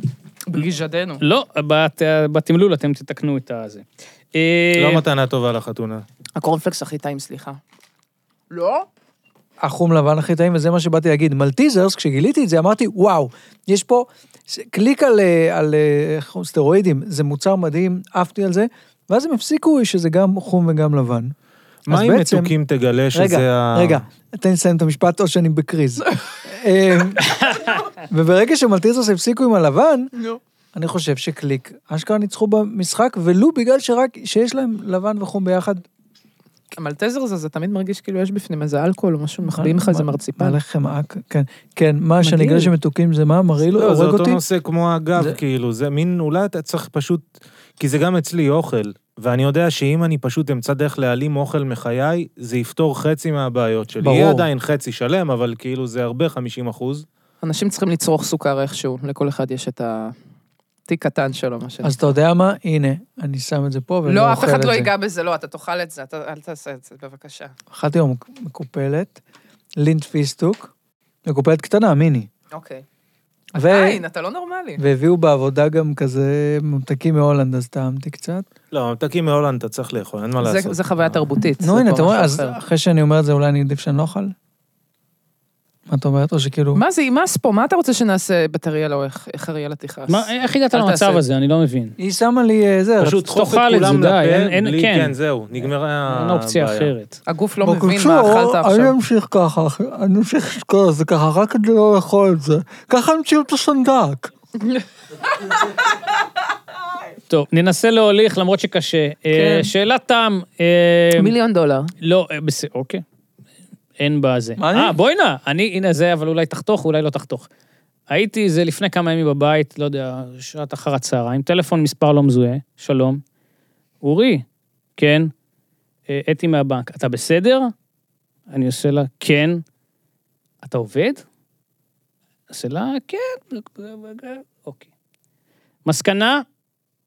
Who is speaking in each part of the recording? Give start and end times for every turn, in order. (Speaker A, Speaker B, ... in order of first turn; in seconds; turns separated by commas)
Speaker A: 0.5-1.2, Speaker B: 1.2-5.0, Speaker C: 4.8-6.0, Speaker A: 6.4-7.6, Speaker A: 8.5-8.9, Speaker D: 9.6-21.3, Speaker C: 21.9-24.0, Speaker D: 21.9-22.6, Speaker D: 23.1-27.4, Speaker D: 28.1-30.1, Speaker D: 30.7-35.9, Speaker A: 36.7-40.6, Speaker D: 39.5-44.4, Speaker A: 42.2-42.7, Speaker C: 43.7-47.3, Speaker C: 47.8-57.1, Speaker D: 54.0-54.5, Speaker A: 57.4-60.1, Speaker A: 60.9-62.1, Speaker D: 61.8-64.9, Speaker A: 64.0-67.5, Speaker D: 67.7-69.2, Speaker D: 69.8-70.7, Speaker D: 71.2-72.3, Speaker A: 72.5-72.8, Speaker A: 73.5-74.8, Speaker D: 73.6-74.0, Speaker D: 74.8-78.5, Speaker C: 78.7-81.2, Speaker A: 80.4-82.6, Speaker D: 81.6-84.3, Speaker D: 85.9-86.8, Speaker A: 86.7-91.2, Speaker B: 90.1-92.0, Speaker D: 92.0-93.3, Speaker C: 93.0-96.9, Speaker B: 93.3-95.2, Speaker B: 95.7-97.2, Speaker A: 97.3-99.0, Speaker D: 97.6-104.3, Speaker B: 107.3-111.3, Speaker A: 109.3-109.7, Speaker A: 111.2-111.9, Speaker B: 112.0-113.0, Speaker B: 114.0-117.5, Speaker D: 114.6-115.0, Speaker B: 118.1-123.2, Speaker B: 124.0-124.5, Speaker B: 125.0-125.3, Speaker B: 126.1-127.7, Speaker B: 128.5-129.6, Speaker B: 130.6-131.2, Speaker B: 132.5-134.8, Speaker B: 135.8-136.4